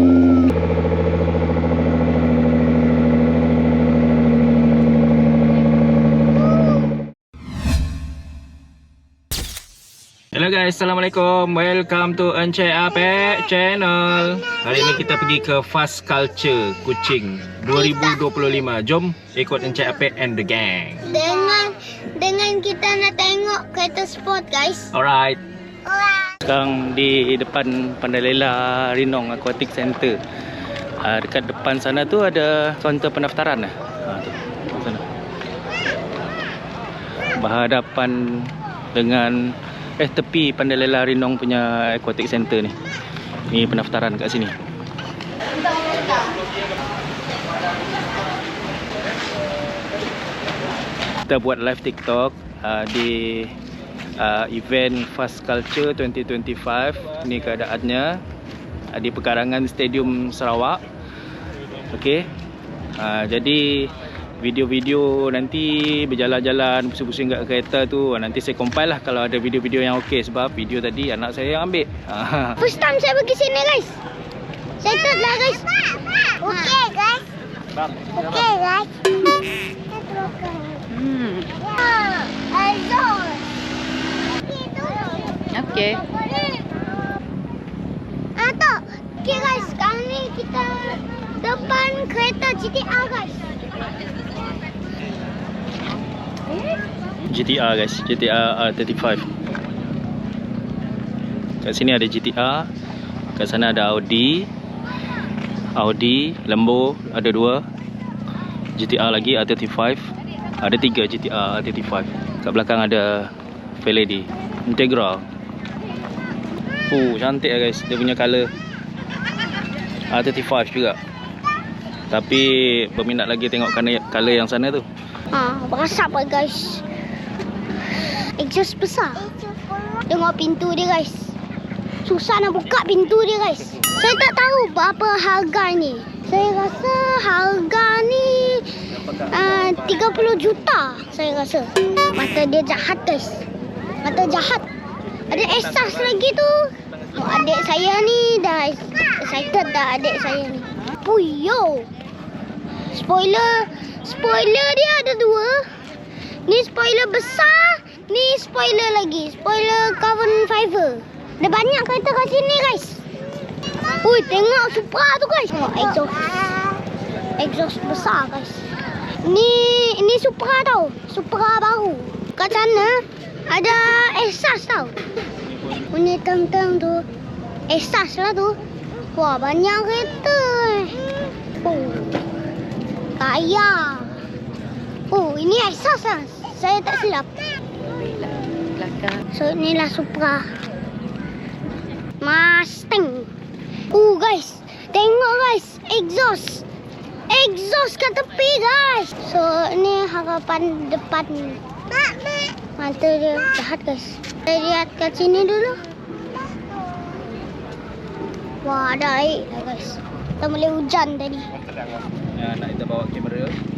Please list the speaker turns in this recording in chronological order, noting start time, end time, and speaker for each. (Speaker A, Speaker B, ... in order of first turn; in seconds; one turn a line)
Speaker A: 10.3-21.0
Speaker B: 14.4-15.0
Speaker B: 17.7-18.6
Speaker B: 21.0-24.9
Speaker A: 24.9-25.4
Speaker B: 25.9-26.3
Speaker A: 26.4-30.2
Speaker A: 31.0-35.0
Speaker A: 37.3-42.7
Speaker A: 43.5-44.5
Speaker A: 51.3-53.5
Speaker A: 54.2-58.2
Speaker A: 58.9-60.8
Speaker A: 61.9-62.2
Speaker A: 63.0-72.6
Speaker B: 72.6-74.0
Speaker B: 74.8-77.2
Speaker A: 77.8-78.2
Speaker B: 78.1-83.5
Speaker C: 80.9-81.5
Speaker B: 84.2-87.1
Speaker C: 85.5-86.0
Speaker B: 88.3-93.5
Speaker A: 97.3-99.2
Speaker A: 101.6-102.7
Speaker A: 103.3-104.5
Speaker A: 105.7-107.6
Speaker A: 108.8-110.1
Speaker A: 110.6-113.3
Speaker A: 113.8-115.2
Speaker A: 116.9-118.5
Speaker A: 120.1-121.0
Speaker A: 122.1-124.8
Speaker B: 125.3-126.8
Speaker B: 127.8-131.3
Speaker B: 132.0-143.4
Speaker A: 139.0-140.1
Speaker B: 144.0-144.7
Speaker B: 145.3-151.9
Speaker A: 145.5-146.1
Speaker B: 152.8-155.8
Speaker B: 156.5-163.1
Speaker B: 164.0-166.8
Speaker B: 167.4-168.7
Speaker B: 169.2-175.0
Speaker B: 175.8-177.1
Speaker B: 177.7-178.6
Speaker B: 179.1-181.0
Speaker B: 181.6-182.2
Speaker B: 183.2-184.2
Speaker B: 185.1-187.4
Speaker C: 187.9-189.2
Speaker B: 189.3-190.5
Speaker B: 192.2-193.3
Speaker B: 193.9-196.7
Speaker B: 197.3-205.8
Speaker B: 208.6-211.5
Speaker A: 212.3-213.6